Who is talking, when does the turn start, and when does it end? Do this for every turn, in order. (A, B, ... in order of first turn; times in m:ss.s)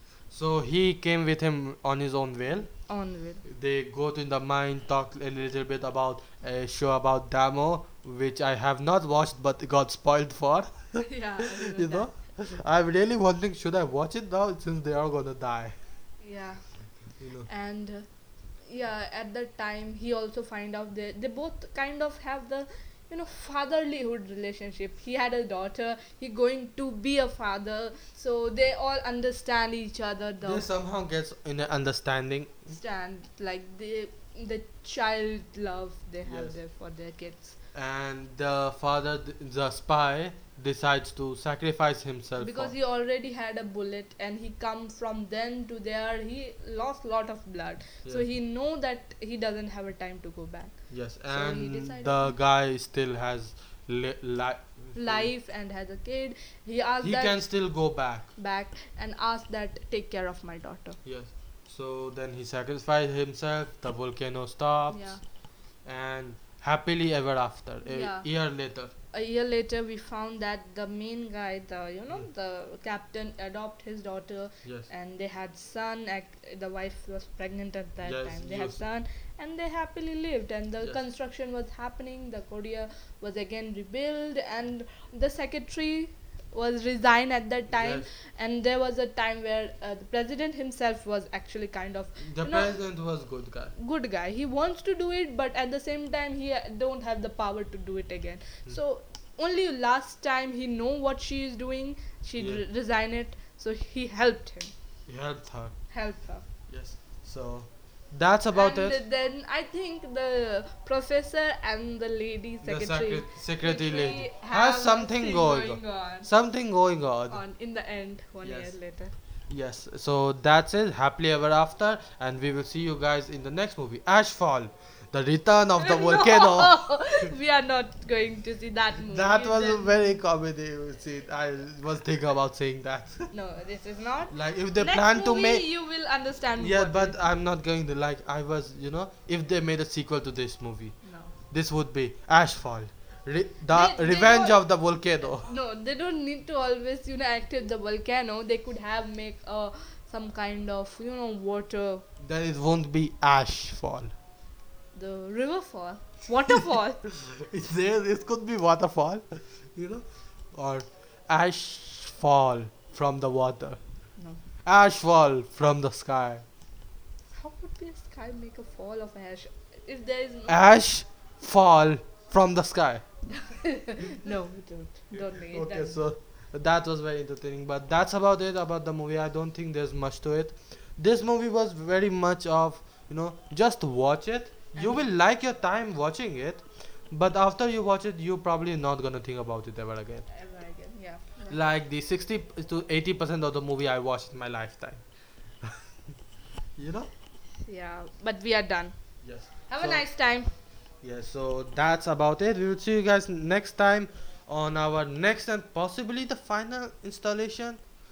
0:00.3-0:02.7 A
0:02.9-0:03.4 B
0:03.4-0:15.7 A
0:11.0-0:12.1 B
0:16.2-0:16.6 B
0:17.2-0:17.5 A
0:17.4-0:18.0 B
0:18.7-0:30.6 B
0:30.4-0:32.7 A
0:32.7-0:37.6 B
0:36.2-0:36.6 A
0:37.7-0:42.7 A
0:42.4-0:50.8 B
0:50.9-0:55.3 A
0:51.3-0:52.4 B
0:55.0-0:57.6 B
0:57.0-0:58.3 A
0:58.4-1:01.0 B
1:01.0-1:05.2 A
1:04.9-1:05.2 B
1:05.8-1:08.9 A
1:07.8-1:08.3 B
1:09.1-1:32.8 B
1:18.0-1:18.8 A
1:27.7-1:28.1 A
1:32.2-1:33.7 A
1:33.8-1:44.7 B
1:42.4-1:42.6 A
1:45.1-1:45.7 A
1:45.9-1:46.4 B
1:46.7-1:49.0 A
1:48.5-1:56.3 B
1:52.6-1:57.4 A
1:57.3-1:59.1 B
1:58.4-1:58.7 A
1:59.5-2:06.8 A
2:05.8-2:10.2 B
2:09.0-2:13.3 A
2:13.3-2:17.2 B
2:14.3-2:15.6 A
2:16.6-2:20.9 A
2:21.0-2:21.3 B
2:21.5-2:25.5 A
2:23.7-2:24.6 B
2:25.4-2:32.0 B
2:32.2-2:34.1 A
2:34.9-2:37.0 B
2:37.1-2:43.8 A
2:44.6-2:46.4 A
2:47.3-2:50.7 B
2:50.5-2:53.0 A
2:53.3-2:56.0 B
2:55.3-3:10.2 A
3:04.7-3:05.1 B
3:10.3-3:11.6 B
3:11.5-3:15.0 A
3:15.6-3:15.9 A
3:16.8-3:17.1 A
3:17.6-3:18.9 B
3:19.2-3:20.0 A
3:19.7-3:20.5 B
3:21.0-3:27.8 A